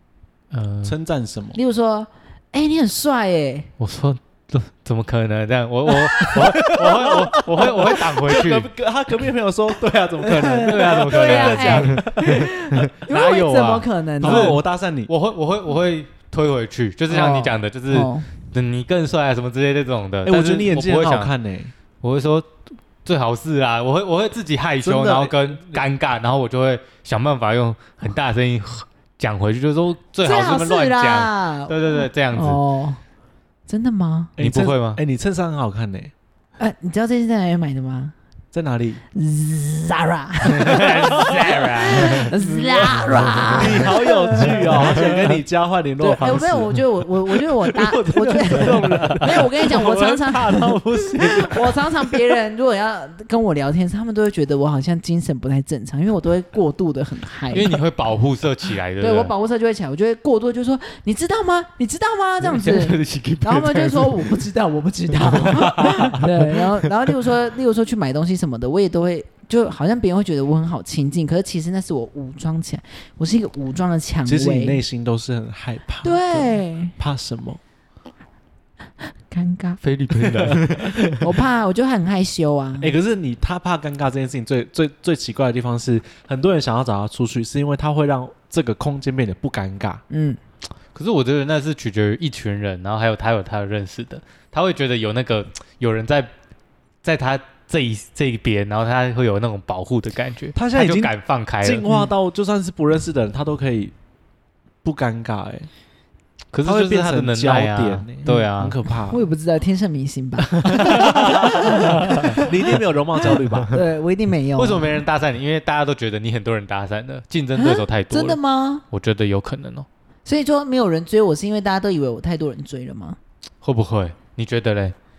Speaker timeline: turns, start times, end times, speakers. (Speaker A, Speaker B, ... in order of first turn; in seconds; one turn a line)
Speaker A: 0.5-0.9
Speaker B: 0.8-1.6
Speaker C: 1.6-3.7
Speaker A: 3.8-8.7
Speaker C: 6.1-6.5
Speaker B: 6.3-12.4
Speaker C: 10.2-14.6
Speaker A: 10.6-21.3
Speaker B: 14.2-15.1
Speaker C: 17.1-18.3
Speaker B: 20.2-21.7
Speaker A: 22.0-22.5
Speaker A: 23.0-32.6
Speaker B: 24.8-25.8
Speaker C: 30.2-33.0
Speaker C: 33.7-34.3
Speaker B: 34.4-36.1
Speaker A: 34.4-35.0
Speaker C: 36.6-38.1
Speaker B: 38.5-39.0
Speaker C: 39.1-44.9
Speaker A: 40.5-42.3
Speaker B: 42.1-52.2
Speaker A: 43.1-43.9
Speaker A: 44.7-45.4
Speaker C: 46.0-57.8
Speaker A: 48.5-49.3
Speaker A: 57.5-59.3
Speaker C: 59.0-74.8
Speaker A: 62.4-64.4
Speaker A: 65.2-66.9
Speaker B: 74.3-77.6
Speaker C: 76.0-77.0
Speaker C: 79.0-79.8
Speaker A: 79.8-81.3
Speaker C: 81.2-83.0
Speaker B: 82.8-90.0
Speaker C: 90.1-90.4
Speaker A: 91.0-96.3
Speaker A: 97.0-101.9
Speaker B: 100.5-103.9
Speaker B: 104.8-105.7
Speaker A: 106.5-108.8
Speaker B: 106.6-109.2
Speaker C: 109.0-112.7
Speaker A: 110.6-111.4
Speaker B: 110.7-113.7
Speaker A: 111.9-112.2
Speaker C: 113.7-115.0
Speaker A: 114.6-118.4
Speaker C: 117.6-118.8
Speaker A: 118.9-119.9
Speaker C: 120.2-123.2
Speaker A: 123.6-125.0